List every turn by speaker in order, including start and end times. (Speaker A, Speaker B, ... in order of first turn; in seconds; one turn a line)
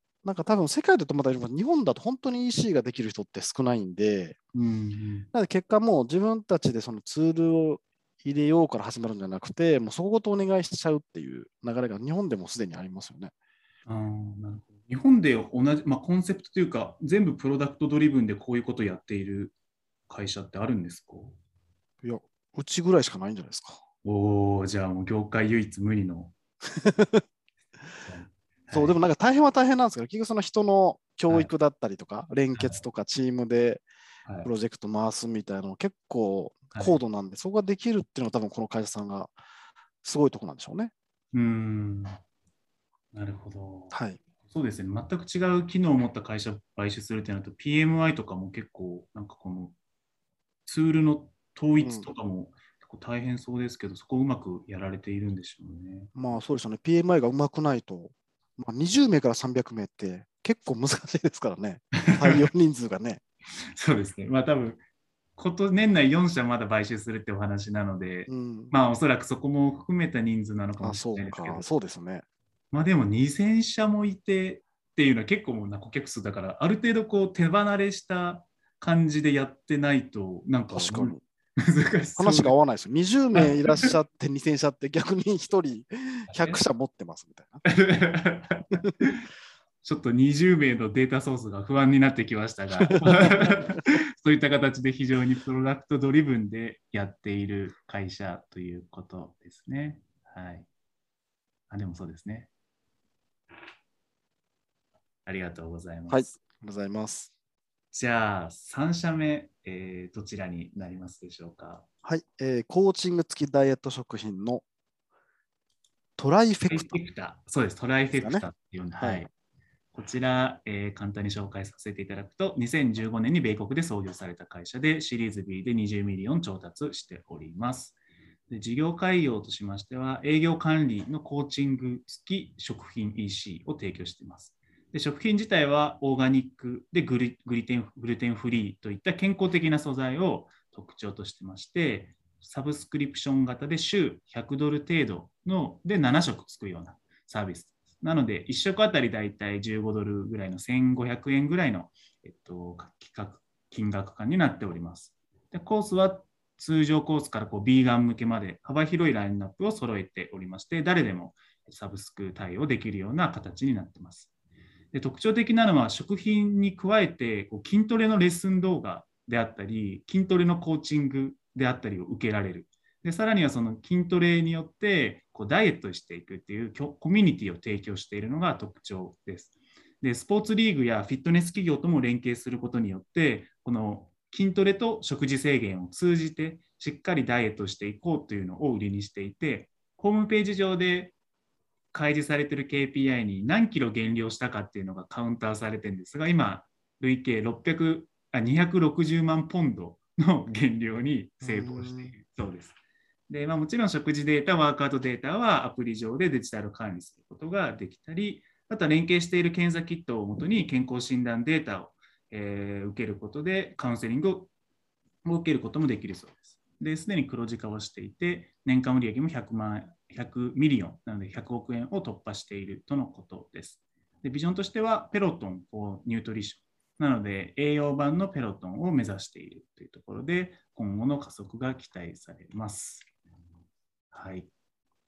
Speaker A: 0.2-4.4
Speaker B: 4.5-5.3
Speaker A: 5.3-13.3
Speaker B: 13.8-19.5
Speaker B: 20.1-21.4
Speaker A: 22.0-23.8
Speaker B: 24.0-26.3
Speaker A: 26.7-27.2
Speaker B: 28.0-29.0
Speaker A: 28.7-33.8
Speaker B: 32.5-32.8
Speaker A: 34.4-39.4
Speaker B: 36.7-37.0
Speaker A: 40.0-40.9
Speaker B: 41.3-42.2
Speaker B: 43.1-49.7
Speaker A: 43.9-44.2
Speaker B: 50.6-56.1
Speaker A: 51.8-52.1
Speaker A: 56.1-63.2
Speaker B: 62.0-62.5
Speaker B: 63.7-64.8
Speaker B: 65.3-71.7
Speaker A: 68.3-68.7
Speaker A: 70.8-72.2
Speaker B: 72.7-82.5
Speaker A: 80.7-81.2
Speaker A: 82.2-87.6
Speaker B: 83.3-83.9
Speaker B: 86.3-86.6
Speaker B: 87.6-89.2
Speaker B: 89.8-100.7
Speaker A: 92.8-93.8
Speaker B: 101.7-102.5
Speaker B: 105.2-106.3
Speaker A: 106.1-107.3
Speaker B: 107.9-111.8
Speaker A: 112.0-114.6
Speaker A: 116.2-117.0
Speaker B: 116.7-119.3
Speaker A: 118.2-118.4
Speaker A: 119.0-119.3
Speaker B: 119.9-128.0
Speaker B: 128.5-164.3
Speaker B: 164.9-191.1
Speaker B: 191.9-202.8
Speaker A: 201.4-202.1
Speaker B: 203.3-214.5
Speaker B: 215.2-233.1
Speaker B: 234.1-234.5